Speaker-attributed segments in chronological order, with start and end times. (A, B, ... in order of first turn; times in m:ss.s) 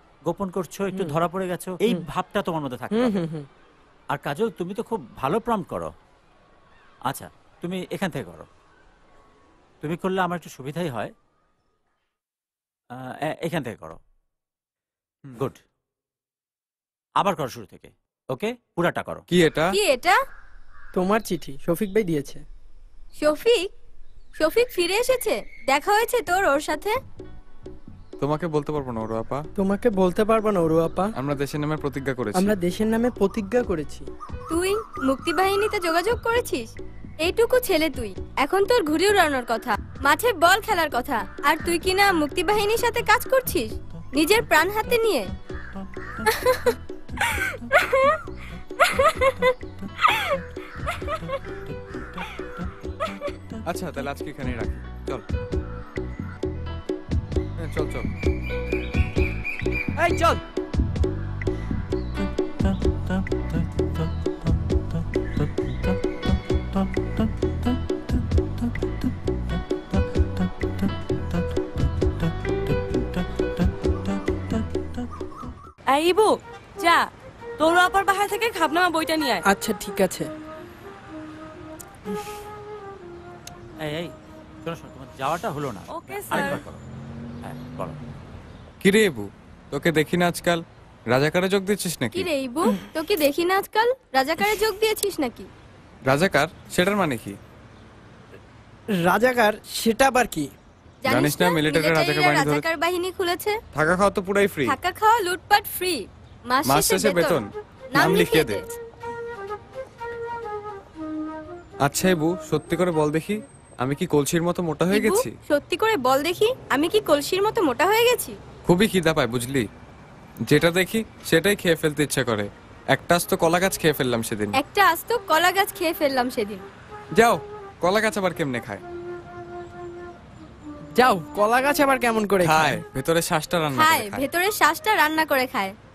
0:00.3-0:03.2 A
0:03.0-0:03.4 B
0:04.1-0:05.9 A
0:07.1-0:08.5 A
0:09.8-0:11.1 A
0:12.9-0:14.0 A
0:17.2-0:19.2 A
0:19.3-0:19.7 C
0:19.7-0:20.1 D
0:20.9-0:22.4 B
0:23.2-0:23.6 D
0:24.4-0:26.9 D
0:28.2-0:29.4 C
0:29.6-0:31.1 B
0:31.1-0:32.5 C
0:32.4-0:34.1 B
0:34.5-0:36.7 D
0:37.2-0:45.2 D
0:53.7-0:55.2 C
0:57.6-0:58.1 C
1:00.0-1:00.4 B
1:15.9-1:17.0 E
1:17.6-1:19.4 E
1:19.5-1:20.2 B
1:23.8-1:24.1 A
1:24.6-1:26.8 A
1:25.9-1:26.6 E
1:27.4-1:28.0 A
1:28.8-1:32.3 C
1:32.2-1:35.4 D
1:36.1-1:37.4 C
1:39.0-1:40.5 B
1:41.1-1:42.6 C
1:41.1-1:43.5 D
1:43.7-1:44.8 C
1:44.7-1:47.4 D
1:46.6-1:48.6 C
1:48.0-1:48.6 D
1:51.8-1:55.3 C
1:54.9-1:58.3 D
1:58.6-1:59.6 C
2:00.5-2:04.5 C
2:04.6-2:06.6 D
2:07.2-2:08.8 C
2:10.9-2:12.8 B
2:12.4-2:14.2 C
2:13.8-2:15.7 D